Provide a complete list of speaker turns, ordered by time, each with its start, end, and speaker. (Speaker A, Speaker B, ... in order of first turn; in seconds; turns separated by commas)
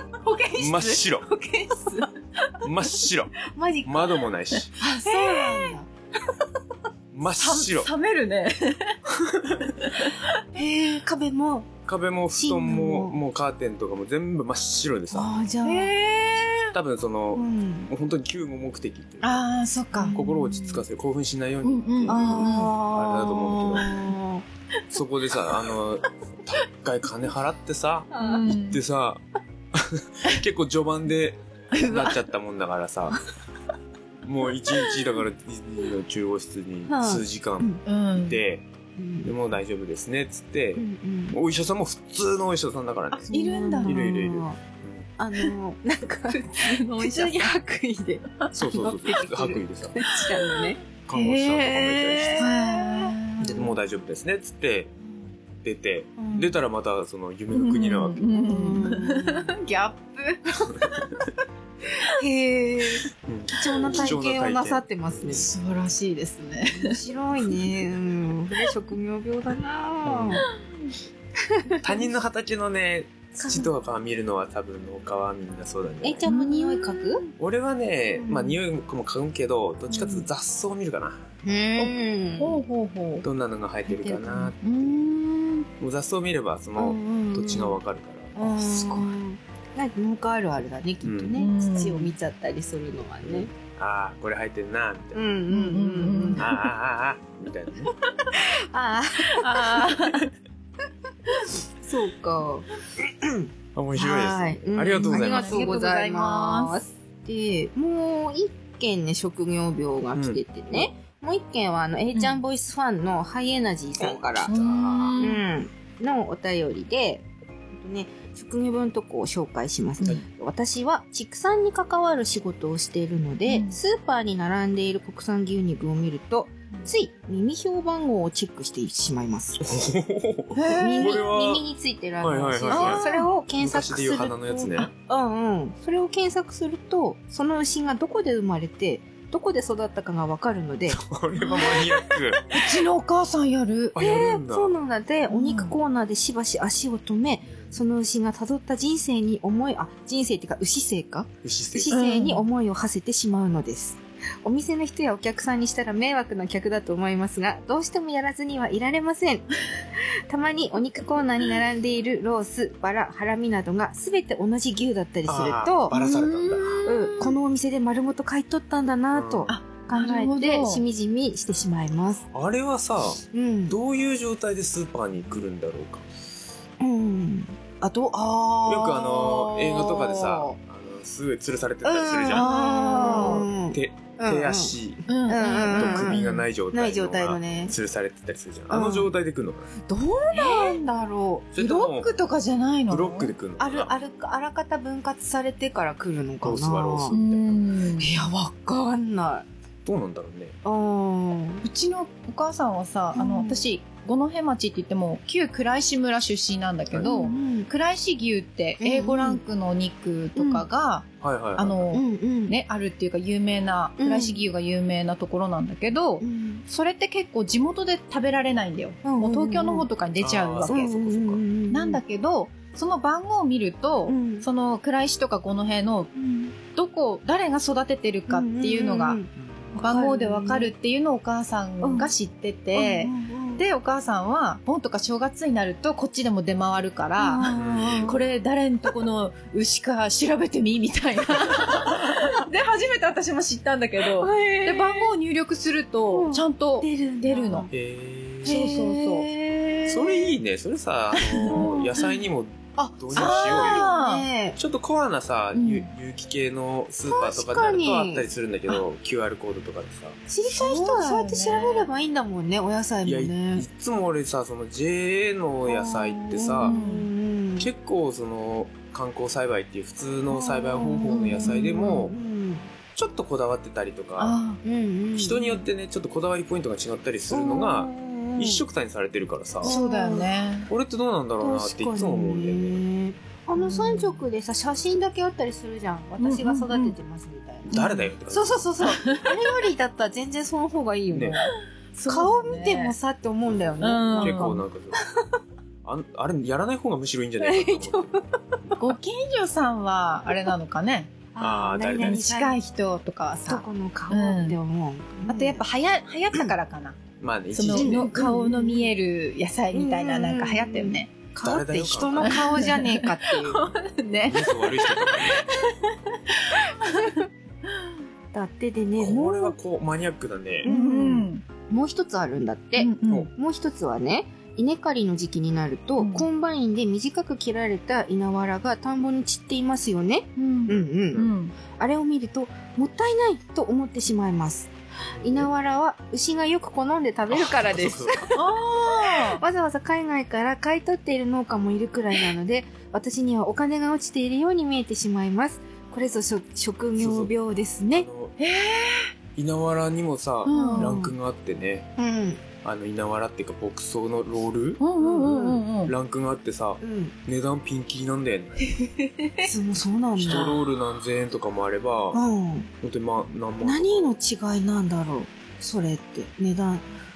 Speaker A: 0.2-2.1, Speaker B: 0.6-1.3, Speaker C: 2.0-2.5, Speaker B: 2.6-4.7, Speaker A: 3.5-4.2, Speaker A: 4.8-5.9, Speaker C: 4.8-5.8, Speaker B: 7.1-7.9, Speaker C: 7.3-9.0, Speaker B: 9.2-9.7, Speaker C: 9.8-10.4, Speaker A: 10.5-11.7, Speaker B: 11.9-15.3, Speaker A: 12.3-13.2, Speaker A: 15.1-15.9, Speaker C: 15.6-16.7, Speaker B: 16.7-19.5, Speaker A: 17.3-17.9, Speaker C: 19.2-20.2, Speaker A: 19.9-20.8, Speaker B: 20.1-23.9, Speaker C: 21.6-22.8, Speaker A: 22.1-24.4, Speaker B: 24.9-29.2, Speaker A: 28.1-28.5, Speaker C: 28.2-28.8, Speaker B: 29.7-33.2, Speaker C: 31.7-32.2, Speaker B: 34.2-38.7, Speaker A: 36.9-37.8, Speaker C: 37.9-38.4, Speaker A: 39.0-39.3, Speaker B: 39.2-43.3, Speaker A: 40.8-41.4, Speaker C: 43.1-44.1, Speaker A: 43.3-44.6, Speaker B: 43.8-45.1, Speaker A: 45.2-50.8, Speaker C: 46.3-47.5, Speaker B: 48.5-50.0, Speaker C: 50.5-53.7, Speaker B: 51.1-52.4, Speaker A: 52.4-53.2, Speaker B: 53.4-54.9, Speaker B: 55.6-58.3, Speaker A: 56.2-56.5, Speaker C: 57.5-60.8, Speaker A: 58.4-59.5, Speaker A: 62.2-65.5, Speaker B: 63.2-65.5, Speaker C: 65.3-67.0, Speaker A: 66.7-70.5, Speaker B: 70.0-70.5, Speaker A: 71.5-71.8, Speaker B: 71.8-76.2, Speaker A: 73.4-73.7, Speaker A: 76.0-77.2, Speaker C: 76.3-77.3, Speaker B: 77.4-81.3, Speaker A: 78.2-78.6, Speaker A: 81.4-82.6, Speaker C: 81.8-83.2, Speaker B: 83.2-85.1, Speaker A: 83.9-84.5, Speaker C: 84.6-85.7, Speaker B: 85.8-89.0, Speaker A: 86.8-87.8, Speaker A: 88.4-93.5, Speaker B: 91.0-91.4, Speaker C: 91.4-92.1, Speaker B: 93.2-95.2, Speaker A: 95.1-96.5, Speaker C: 95.5-96.5, Speaker B: 96.4-97.9, Speaker A: 98.3-100.0, Speaker C: 99.3-100.3, Speaker A: 101.8-102.7, Speaker A: 103.2-114.6, Speaker B: 103.8-105.7, Speaker C: 105.0-106.8, Speaker B: 110.2-110.9, Speaker B: 114.2-115.1, Speaker C: 114.5-115.4, Speaker A: 115.2-129.7, Speaker C: 123.5-123.8, Speaker B: 129.6-131.7, Speaker C: 130.6-131.2, Speaker A: 130.7-141.8, Speaker B: 132.2-133.0, Speaker C: 132.7-133.3, Speaker B: 133.6-134.9, Speaker B: 140.9-142.6, Speaker C: 142.5-143.9, Speaker B: 143.9-144.8, Speaker A: 144.0-165.9, Speaker C: 145.3-145.7, Speaker B: 147.4-147.8, Speaker B: 151.4-151.9, Speaker C: 151.9-152.4, Speaker B: 165.3-166.8, Speaker C: 165.9-167.3, Speaker A: 166.8-172.2, Speaker B: 169.1-169.5, Speaker C: 169.5-170.8, Speaker B: 172.3-176.1, Speaker A: 173.3-173.8, Speaker A: 176.8-180.6, Speaker B: 178.7-182.5, Speaker A: 181.8-184.8, Speaker C: 182.3-183.5, Speaker B: 183.0-185.1, Speaker C: 185.1-186.4, Speaker A: 185.3-187.7, Speaker B: 185.7-189.7, Speaker A: 188.7-189.1, Speaker A: 189.9-191.5, Speaker C: 190.3-190.8, Speaker B: 191.5-192.1, Speaker C: 191.6-193.3, Speaker B: 192.9-193.9, Speaker A: 193.6-197.2, Speaker B: 196.4-197.6, Speaker C: 197.1-198.1, Speaker A: 198.0-199.5, Speaker B: 199.8-200.6, Speaker A: 200.6-201.7, Speaker C: 201.6-226.1, Speaker A: 203.1-203.7, Speaker A: 207.0-207.7, Speaker A: 208.8-209.4, Speaker A: 210.4-210.7, Speaker B: 211.2-212.0, Speaker A: 211.9-212.6, Speaker A: 214.0-214.4, Speaker A: 216.2-216.7, Speaker A: 219.0-219.9, Speaker B: 220.2-221.4, Speaker A: 220.7-222.0, Speaker A: 224.1-224.5, Speaker A: 226.2-226.5, Speaker C: 226.7-229.2, Speaker A: 228.3-230.7, Speaker C: 229.8-237.5, Speaker A: 231.8-232.1, Speaker A: 232.7-233.7, Speaker A: 237.2-238.2, Speaker B: 237.5-238.2, Speaker C: 238.0-247.7, Speaker A: 244.2-245.1, Speaker A: 246.1-247.7, Speaker B: 247.7-248.6, Speaker A: 248.4-250.3, Speaker C: 248.4-249.3, Speaker B: 249.9-253.9, Speaker C: 251.3-252.0, Speaker A: 251.4-252.0, Speaker C: 252.8-254.3, Speaker A: 253.1-254.6, Speaker B: 254.6-260.2, Speaker C: 255.6-255.9, Speaker A: 257.1-258.3, Speaker A: 260.3-263.7, Speaker C: 260.5-261.9, Speaker B: 263.0-266.8, Speaker A: 265.7-267.7, Speaker C: 266.6-267.1, Speaker B: 267.6-272.1, Speaker A: 270.3-272.7, Speaker C: 271.1-271.9, Speaker B: 273.0-274.4, Speaker C: 274.2-274.6, Speaker A: 274.6-275.6, Speaker B: 275.1-279.8, Speaker A: 277.3-278.6, Speaker A: 279.6-280.3, Speaker C: 279.6-280.7, Speaker B: 280.7-282.8, Speaker A: 281.4-291.6, Speaker C: 283.6-284.2, Speaker C: 286.2-287.0, Speaker C: 287.7-289.3, Speaker B: 287.7-288.7, Speaker B: 291.1-291.4, Speaker C: 291.9-292.9, Speaker A: 292.1-295.2, Speaker B: 293.5-295.0, Speaker C: 293.8-294.6, Speaker B: 295.8-298.1, Speaker A: 297.4-298.8, Speaker C: 298.8-301.3, Speaker A: 301.4-302.6, Speaker B: 301.4-302.2, Speaker C: 301.9-304.6, Speaker A: 303.5-305.6, Speaker C: 305.3-307.0, Speaker B: 307.2-308.1, Speaker C: 307.5-311.1, Speaker A: 307.7-308.9, Speaker A: 309.7-313.7, Speaker B: 311.4-312.4, Speaker C: 312.2-317.2, Speaker B: 314.3-315.4, Speaker A: 318.3-319.6, Speaker B: 319.0-320.7, Speaker A: 320.6-348.1, Speaker C: 320.6-321.4, Speaker C: 322.8-323.3, Speaker C: 326.0-326.3, Speaker C: 330.4-331.6, Speaker B: 330.7-331.3, Speaker B: 335.1-335.5, Speaker B: 337.3-338.3, Speaker C: 338.4-339.4, Speaker B: 347.0-347.3, Speaker B: 347.9-348.4, Speaker C: 348.4-349.1, Speaker B: 349.4-351.9, Speaker C: 350.5-351.0, Speaker A: 350.5-351.1, Speaker A: 352.0-352.4, Speaker B: 352.6-354.8, Speaker C: 354.8-355.9, Speaker A: 355.0-355.6, Speaker B: 355.9-358.7, Speaker A: 356.8-357.1, Speaker C: 358.8-359.3, Speaker A: 359.4-360.6, Speaker B: 360.2-362.2, Speaker A: 362.1-362.7, Speaker B: 362.8-364.1, Speaker A: 363.6-366.9